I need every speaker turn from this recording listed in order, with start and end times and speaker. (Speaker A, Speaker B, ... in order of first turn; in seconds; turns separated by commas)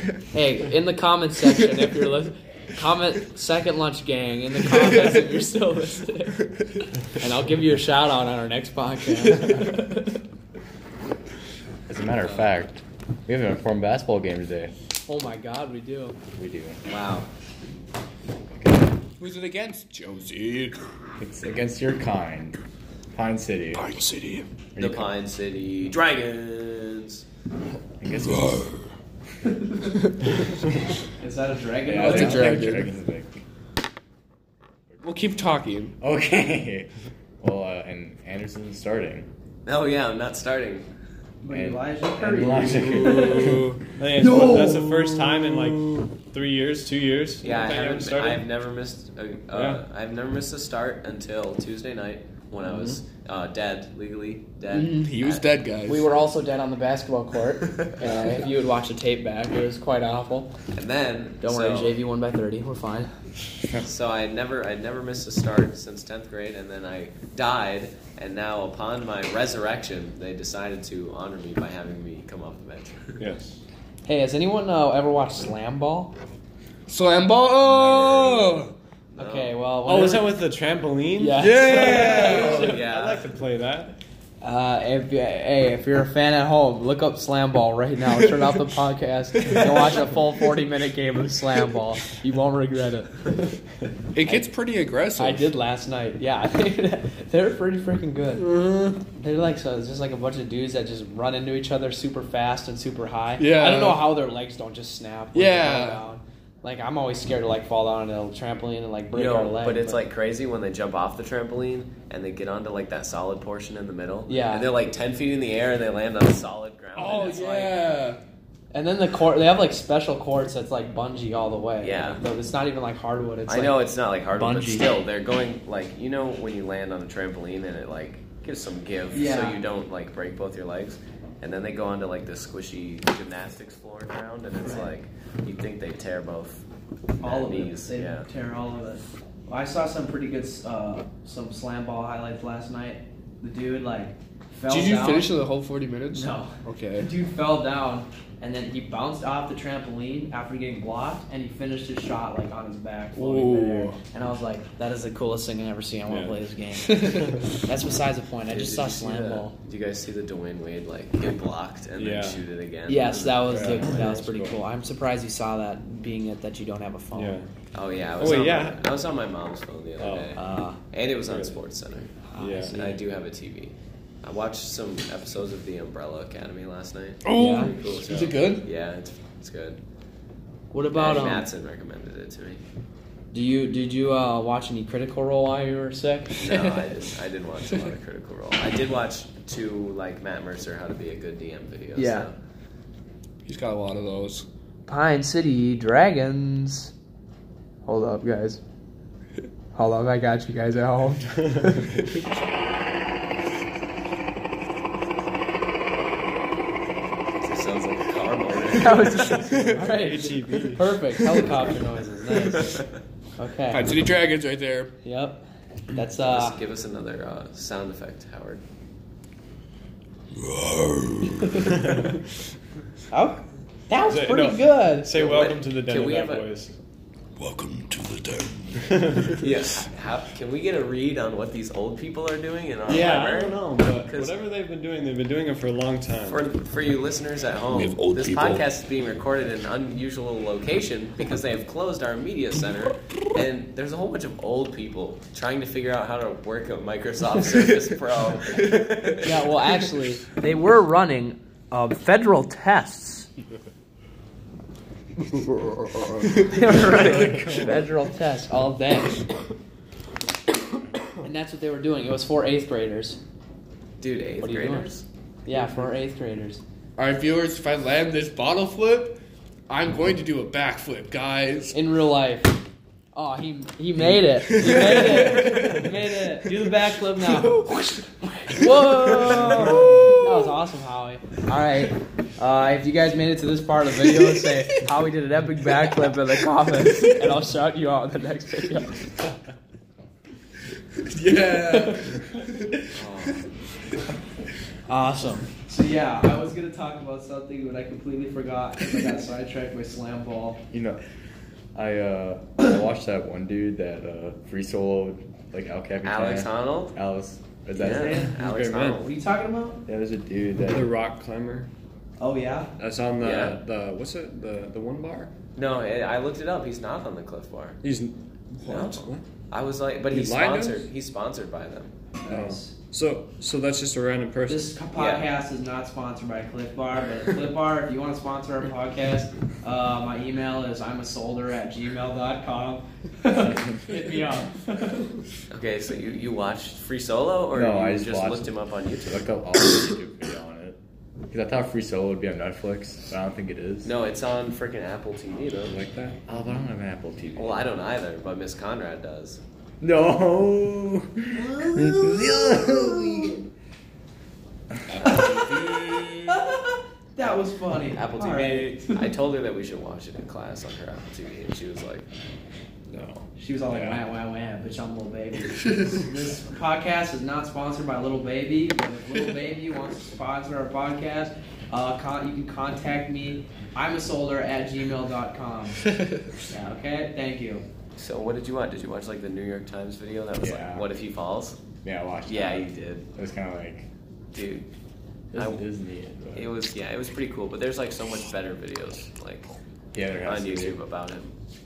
Speaker A: 0.3-6.5, Speaker A: 7.0-10.2, Speaker B: 11.9-14.7, Speaker A: 15.1-16.2, Speaker B: 16.4-16.8, Speaker C: 16.9-17.3, Speaker B: 18.5-18.9, Speaker D: 19.2-20.8, Speaker B: 21.2-22.6, Speaker B: 23.1-24.0, Speaker D: 23.7-24.5, Speaker B: 24.8-25.1, Speaker C: 24.8-27.2, Speaker B: 28.0-28.7, Speaker A: 29.4-30.1, Speaker A: 31.2-32.7, Speaker B: 31.9-33.4, Speaker D: 31.9-32.9, Speaker D: 35.0-36.0, Speaker B: 36.0-39.3, Speaker C: 39.7-40.9, Speaker A: 41.4-43.6, Speaker B: 41.5-43.7, Speaker D: 43.4-46.0, Speaker E: 43.9-48.5, Speaker C: 47.4-55.5, Speaker E: 49.5-49.8, Speaker D: 54.7-56.1, Speaker A: 55.9-60.5, Speaker D: 58.0-58.5, Speaker C: 60.7-62.0, Speaker A: 61.4-63.1, Speaker C: 63.8-73.2, Speaker E: 73.2-73.6, Speaker A: 74.1-76.1, Speaker D: 76.9-78.7, Speaker C: 79.2-79.6, Speaker A: 79.2-80.4, Speaker E: 79.8-84.0, Speaker A: 81.2-82.8, Speaker D: 81.4-82.7, Speaker C: 82.0-83.3, Speaker A: 84.4-93.3, Speaker D: 89.5-89.9, Speaker D: 94.1-95.5, Speaker A: 94.2-94.5, Speaker A: 95.2-98.6, Speaker D: 98.4-99.0, Speaker A: 99.1-110.0, Speaker D: 103.4-104.2, Speaker D: 105.3-106.0, Speaker C: 109.1-118.0, Speaker A: 114.3-114.7, Speaker D: 117.0-118.2, Speaker A: 118.7-124.9, Speaker C: 121.8-122.2, Speaker C: 123.5-136.6, Speaker A: 129.1-129.6, Speaker A: 134.6-134.9, Speaker C: 137.2-138.3, Speaker A: 137.2-145.3, Speaker D: 144.7-147.1, Speaker A: 146.1-159.6, Speaker D: 153.2-154.0, Speaker E: 156.1-156.4, Speaker C: 158.5-164.2, Speaker E: 162.0-162.4, Speaker A: 162.9-167.4, Speaker E: 163.5-164.6, Speaker E: 167.1-167.5, Speaker C: 167.7-172.2, Speaker E: 168.2-168.8, Speaker E: 170.0-170.4, Speaker A: 170.4-170.8, Speaker E: 171.3-171.6, Speaker A: 172.3-173.0, Speaker E: 172.4-172.8, Speaker C: 172.7-179.8, Speaker D: 177.2-178.7, Speaker A: 177.3-177.7, Speaker A: 180.7-181.5, Speaker C: 180.9-182.6, Speaker A: 183.3-186.9, Speaker C: 186.4-192.4, Speaker A: 191.9-192.3, Speaker D: 193.4-194.5, Speaker A: 194.9-196.9, Speaker A: 197.9-198.6, Speaker A: 199.8-202.2, Speaker C: 207.4-209.7, Speaker A: 208.7-212.8, Speaker D: 209.3-209.8, Speaker E: 209.8-210.9, Speaker C: 212.5-212.9, Speaker A: 213.4-214.0, Speaker D: 213.7-214.9, Speaker A: 215.0-216.6, Speaker C: 216.2-218.6, Speaker D: 220.4-221.7, Speaker A: 221.4-221.8, Speaker E: 221.7-222.1, Speaker A: 223.1-225.1, Speaker E: 224.1-226.8, Speaker C: 225.1-226.5, Speaker D: 227.4-229.4, Speaker E: 228.8-229.4, Speaker C: 229.4-234.4, Speaker E: 232.9-236.4, Speaker C: 236.2-249.6, Speaker D: 237.7-238.6, Speaker A: 249.2-253.3, Speaker D: 255.3-257.4, Speaker A: 256.4-259.3, Speaker B: 257.2-257.7, Speaker A: 261.2-263.2, Speaker C: 264.0-265.1, Speaker A: 264.4-264.9, Speaker A: 265.4-266.6, Speaker D: 267.0-271.8, Speaker A: 271.7-272.6, Speaker A: 273.1-277.7, Speaker D: 274.1-280.5, Speaker A: 278.2-289.0, Speaker D: 284.1-284.7, Speaker D: 286.9-287.2, Speaker D: 291.0-293.4, Speaker A: 291.7-292.2, Speaker C: 292.9-293.5, Speaker A: 294.9-300.6, Speaker B: 300.7-301.0, Speaker B: 301.8-308.2, Speaker C: 306.0-307.0, Speaker C: 307.8-309.1, Speaker A: 307.9-308.3, Speaker E: 308.1-309.0, Speaker A: 309.0-309.8, Speaker B: 309.9-310.9, Speaker E: 310.6-311.7, Speaker A: 312.2-312.7, Speaker E: 312.8-315.3, Speaker C: 313.2-313.6, Speaker C: 315.6-317.8, Speaker E: 317.8-318.2, Speaker D: 318.6-319.0, Speaker C: 318.6-321.9, Speaker E: 320.1-320.9, Speaker A: 322.2-322.7, Speaker E: 322.3-324.8, Speaker A: 324.5-335.1, Speaker C: 324.9-325.3, Speaker B: 333.4-334.0, Speaker C: 335.5-339.2, Speaker B: 337.5-340.8, Speaker B: 341.3-343.9, Speaker C: 343.8-345.8, Speaker E: 345.7-346.2, Speaker B: 346.3-347.6, Speaker C: 347.4-349.4, Speaker B: 349.8-353.4, Speaker A: 351.4-352.0, Speaker D: 354.9-356.4, Speaker C: 355.0-355.9, Speaker A: 355.0-355.5, Speaker A: 356.3-359.1, Speaker C: 357.9-362.1, Speaker A: 363.4-375.9, Speaker D: 365.7-366.0, Speaker A: 376.5-377.6, Speaker C: 378.0-381.6, Speaker B: 380.4-380.9, Speaker B: 381.8-383.9, Speaker C: 382.3-383.1, Speaker C: 384.3-384.7, Speaker C: 385.3-385.6, Speaker B: 385.3-386.5, Speaker C: 386.3-389.6, Speaker B: 389.9-390.8, Speaker C: 390.2-391.3